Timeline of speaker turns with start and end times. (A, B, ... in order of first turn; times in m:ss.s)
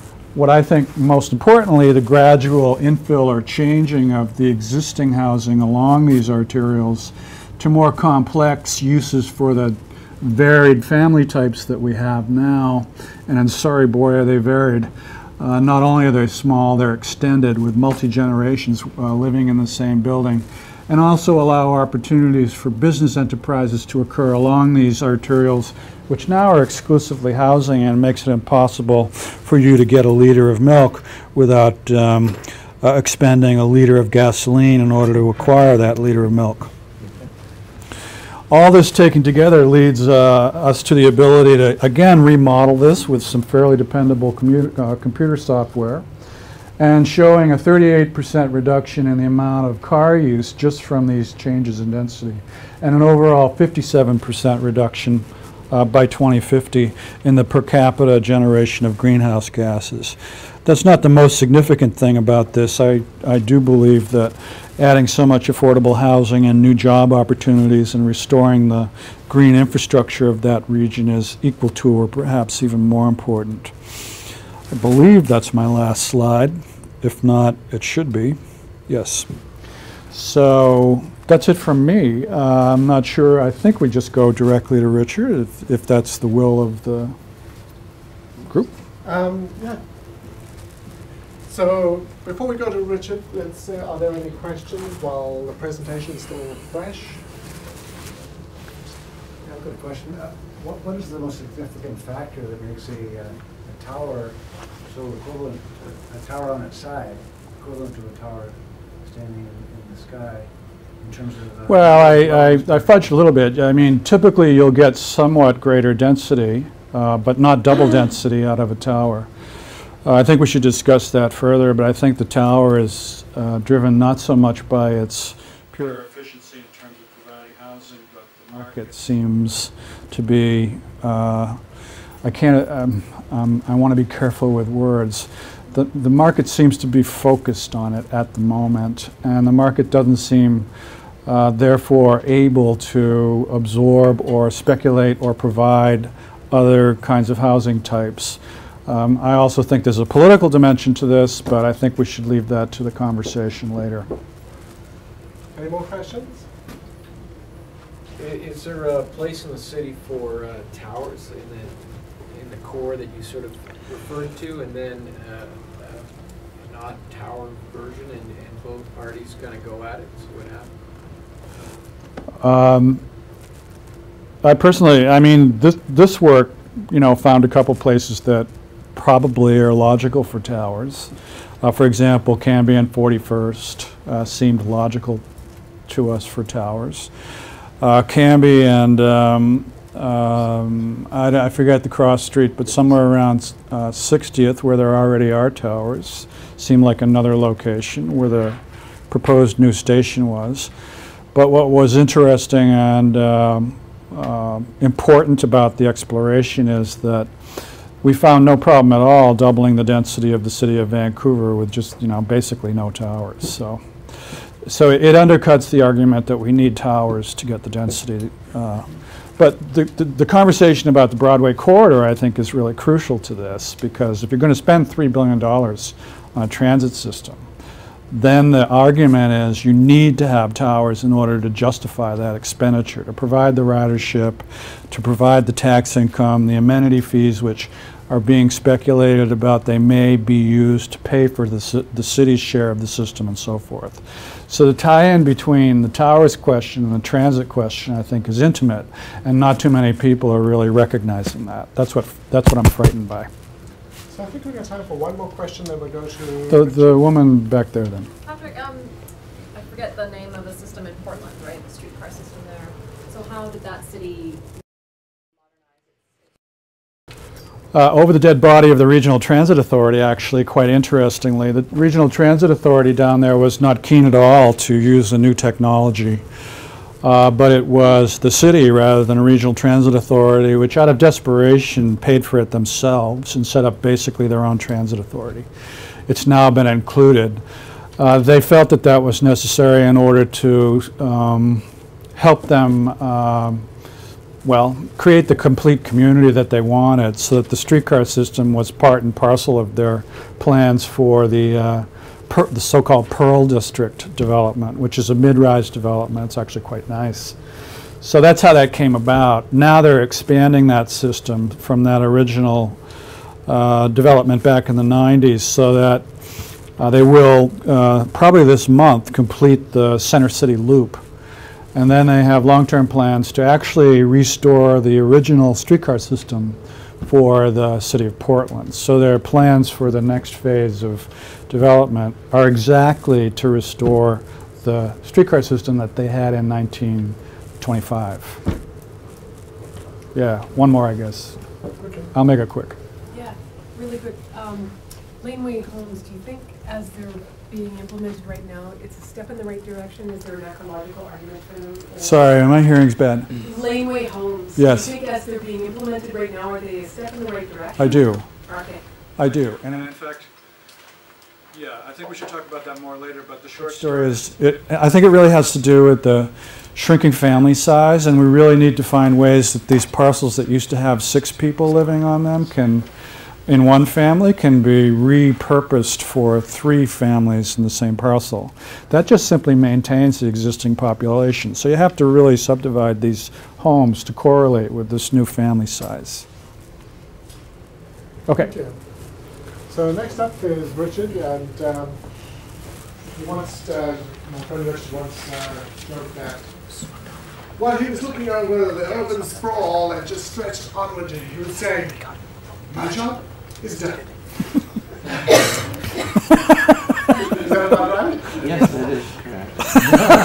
0:00.3-0:36.7 A
0:38.5-0:46.0 A
0:46.8-1:13.7 A
1:14.7-1:19.3 A
1:20.1-1:27.2 A
1:28.4-1:28.7 A
1:29.0-1:29.8 B
1:31.5-1:37.2 B
1:39.4-1:50.5 C
1:51.0-1:52.8 C
1:51.7-1:59.3 A
2:00.0-2:11.6 A
2:12.2-2:20.7 A
2:21.2-2:34.1 A
2:35.5-2:36.4 B
2:38.2-2:50.7 D
2:52.4-2:53.0 A
2:54.4-3:05.2 A
3:05.9-3:07.1 A
3:07.8-3:20.7 A
3:21.3-3:27.3 A
3:28.0-3:33.8 A
3:34.6-3:47.4 A
3:48.1-4:13.3 A
4:14.1-4:17.0 B
4:16.5-4:18.1 A
4:18.2-4:18.9 E
4:19.5-4:24.4 E
4:23.1-4:23.5 F
4:27.7-4:36.2 A
4:37.0-4:45.5 A
4:46.1-4:47.4 A
4:48.0-4:51.6 A
4:52.2-4:53.7 A
4:54.4-5:07.4 A
5:08.0-5:12.8 A
5:13.5-5:16.1 A
5:16.8-5:21.0 A
5:21.7-5:38.4 A
5:40.1-5:41.4 A
5:41.8-5:42.1 B
5:42.1-5:42.8 A
5:43.1-5:52.2 F
5:52.0-5:53.4 A
5:53.4-5:58.8 F
5:54.6-5:54.9 A
5:57.8-5:58.3 A
5:59.2-6:00.3 A
6:01.5-6:12.9 A
6:13.5-6:26.3 A
6:28.3-6:28.5 A
6:28.3-6:28.8 B
6:29.7-6:32.0 B
6:33.1-6:36.7 B
6:37.5-6:42.2 B
6:42.7-6:44.2 B
6:47.3-6:48.7 B
6:48.4-6:49.6 D